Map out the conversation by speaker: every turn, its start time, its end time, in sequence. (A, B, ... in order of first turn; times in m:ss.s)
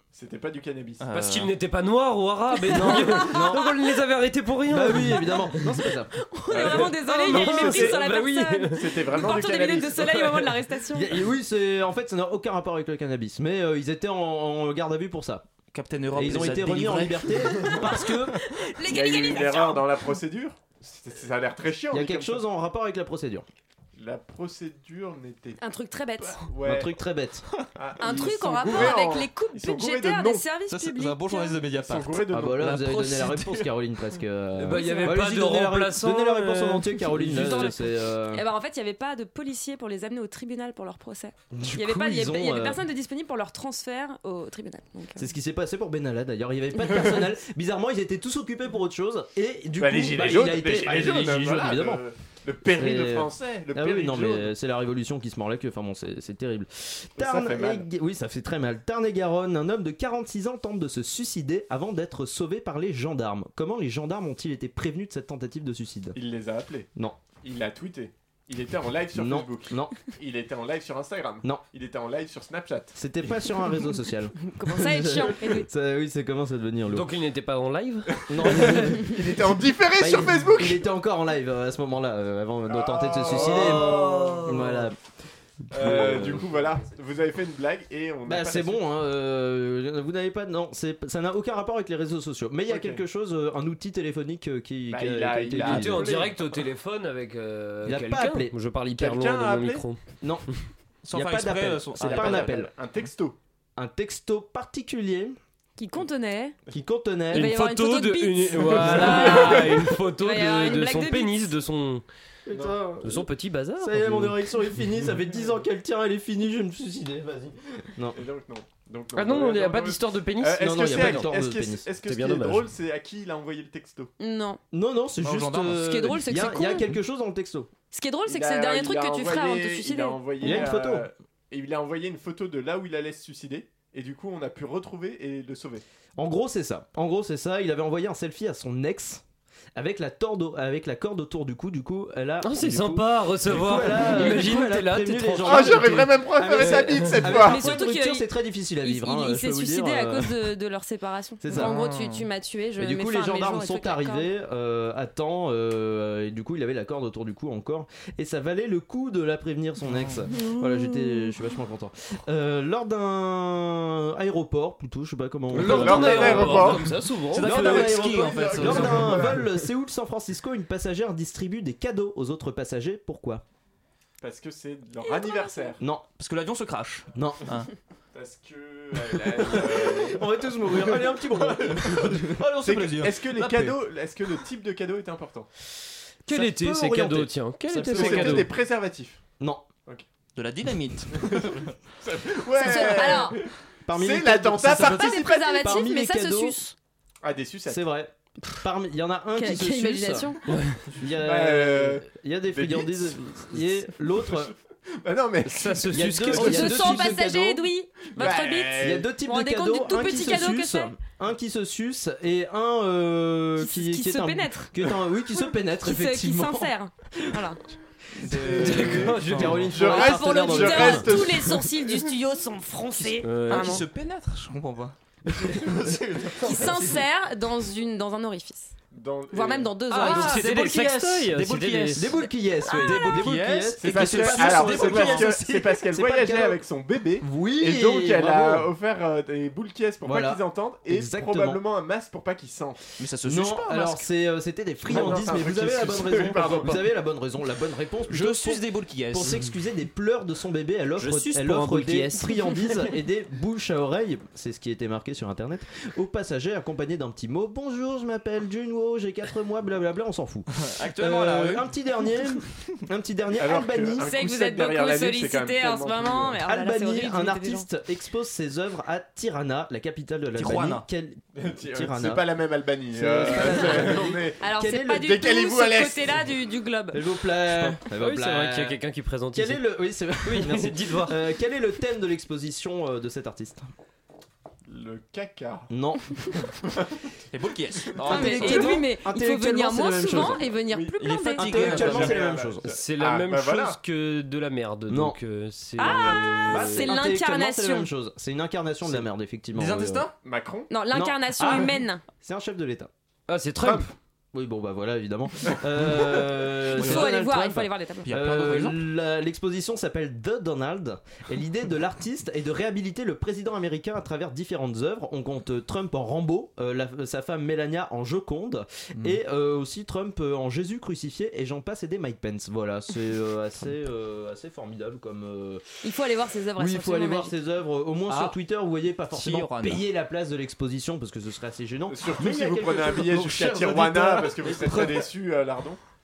0:00.1-0:01.1 A
0:01.0-0:01.5 B
0:01.1-0:05.8 C
0:02.7-0:03.7 D
0:02.7-0:03.6 E
0:04.7-0:06.8 E
0:06.2-0:11.1 D
0:06.5-0:08.0 A
0:06.6-0:09.2 C
0:08.7-0:10.3 A
0:10.9-0:15.4 E
0:15.7-0:17.5 B
0:16.1-0:18.4 E
0:17.6-0:17.9 A
0:17.8-0:20.0 D
0:18.8-0:22.4 A
0:21.9-0:23.4 E
0:24.0-0:25.6 A
0:25.6-0:26.4 D
0:26.2-0:26.9 A
0:26.6-0:27.4 E
0:27.7-0:30.4 A
0:28.0-0:31.6 D
0:30.7-0:33.4 B
0:31.8-0:33.5 A
0:32.3-0:38.4 E
0:34.6-0:37.7 C
0:34.7-0:35.2 D
0:37.2-0:45.3 D
0:41.5-0:42.8 E
0:45.2-0:52.0 E
0:49.8-0:54.5 A
0:52.6-1:06.2 E
0:57.2-0:57.9 A
1:06.1-1:06.9 A
1:07.4-1:13.0 A
1:09.2-1:10.0 E
1:12.9-1:17.1 E
1:14.4-1:15.7 D
1:16.9-1:18.8 C
1:18.3-1:19.2 E
1:18.3-1:20.9 A
1:20.0-1:25.0 E
1:22.7-1:24.8 A
1:25.7-1:26.7 E
1:25.7-1:28.8 A
1:28.2-1:36.1 E
1:32.7-1:33.0 A
1:34.9-1:36.5 A
1:35.5-1:40.0 C
1:37.8-1:38.5 E
1:39.0-1:39.8 A
1:40.2-1:40.5 E
1:41.0-1:42.6 B
1:41.1-1:42.7 E
1:42.0-1:43.4 A
1:43.8-1:45.4 E
1:45.8-1:46.6 D
1:46.7-1:47.5 E
1:47.3-1:51.5 D
1:47.3-1:52.0 C
1:48.6-1:49.6 E
1:52.4-1:53.3 E
1:52.5-1:53.0 A
1:53.0-1:54.4 C
1:53.8-1:58.2 E
1:58.1-2:04.1 A
1:59.1-2:01.3 C
2:00.6-2:01.9 E
2:02.0-2:02.7 C
2:04.2-2:04.6 D
2:04.7-2:07.7 E
2:05.2-2:05.9 B
2:05.7-2:07.0 D
2:07.9-2:10.6 D
2:08.2-2:15.8 A
2:10.4-2:11.1 E
2:16.2-2:19.2 E
2:19.8-2:30.4 E
2:22.4-2:27.1 C
2:25.4-2:27.7 A
2:27.3-2:28.3 D
2:28.8-2:34.3 D
2:31.4-2:31.8 E
2:31.7-2:32.2 B
2:32.8-2:46.8 E
2:45.5-2:47.9 C
2:45.5-2:49.5 A
2:47.3-2:49.3 B
2:47.4-2:53.4 E
2:54.2-2:55.8 A
2:55.0-2:55.7 D
2:55.8-2:56.0 E
2:56.2-2:57.7 B
2:57.1-2:57.5 E
2:58.1-3:02.0 A
2:59.4-3:02.4 E
3:02.2-3:03.8 B
3:02.6-3:05.5 A
3:06.2-3:08.5 C
3:06.3-3:08.5 E
3:07.9-3:09.2 A
3:09.4-3:09.7 E
3:10.3-3:11.7 B
3:11.1-3:15.8 A
3:12.5-3:13.4 D
3:13.9-3:16.6 E
3:14.7-3:16.7 D
3:17.2-3:17.8 A
3:17.7-3:20.3 E
3:19.4-3:20.4 D
3:20.4-3:20.8 C
3:20.9-3:24.5 E
3:21.1-3:23.2 A
3:25.0-3:25.9 A
3:25.4-3:27.1 C
3:25.9-3:27.6 E
3:26.3-3:30.9 D
3:28.1-3:29.1 A
3:28.8-3:36.7 E
3:33.6-3:34.9 D
3:35.8-3:37.6 D
3:38.2-3:39.4 B
3:38.2-3:41.2 E
3:38.3-3:42.0 A
3:38.5-3:39.9 C
3:39.8-3:43.8 D
3:43.0-3:47.0 B
3:43.2-3:43.8 C
3:46.4-3:48.7 D
3:48.9-3:49.9 A
3:49.3-3:50.5 D
3:49.9-3:52.0 B
3:49.9-3:52.2 C
3:51.9-3:56.6 E
3:52.2-3:53.2 D
3:52.7-3:55.6 B
3:53.7-4:02.8 A
3:57.2-3:58.7 E
4:00.0-4:01.6 E
4:03.0-4:04.1 B
4:03.2-4:24.0 E
4:04.9-4:06.9 A
4:08.1-4:09.5 B
4:11.0-4:12.1 B
4:11.5-4:12.7 C
4:20.6-4:21.7 B
4:23.4-4:26.4 A
4:24.0-4:27.7 D
4:26.4-4:32.2 E
4:30.3-4:30.8 B
4:31.3-4:36.2 A
4:32.9-4:35.1 E
4:33.3-4:33.8 D
4:34.4-4:37.0 D
4:36.9-4:38.8 E
4:37.5-4:39.7 C
4:39.3-4:43.7 E
4:40.2-4:41.2 C
4:44.7-4:45.7 A
4:45.7-4:46.1 E
4:46.3-4:47.1 A
4:47.3-4:48.8 B
4:48.0-4:50.4 E
4:48.1-4:51.7 D
4:50.7-4:53.8 A
4:51.0-4:52.2 B
4:51.4-4:52.7 E
4:52.6-4:56.9 C
4:54.9-4:55.2 E
4:55.8-4:57.9 D
4:55.8-4:56.7 A
4:56.5-5:00.1 E
4:59.5-5:00.1 B
5:00.2-5:00.7 A
5:00.7-5:02.0 D
5:00.9-5:02.9 E
5:03.3-5:03.9 C
5:04.3-5:25.6 E
5:06.7-5:08.1 D
5:06.7-5:07.1 B
5:08.0-5:08.8 B
5:25.8-5:27.3 D
5:26.6-5:35.0 E
5:28.1-5:28.3 B
5:29.1-5:29.9 B
5:31.9-5:35.8 A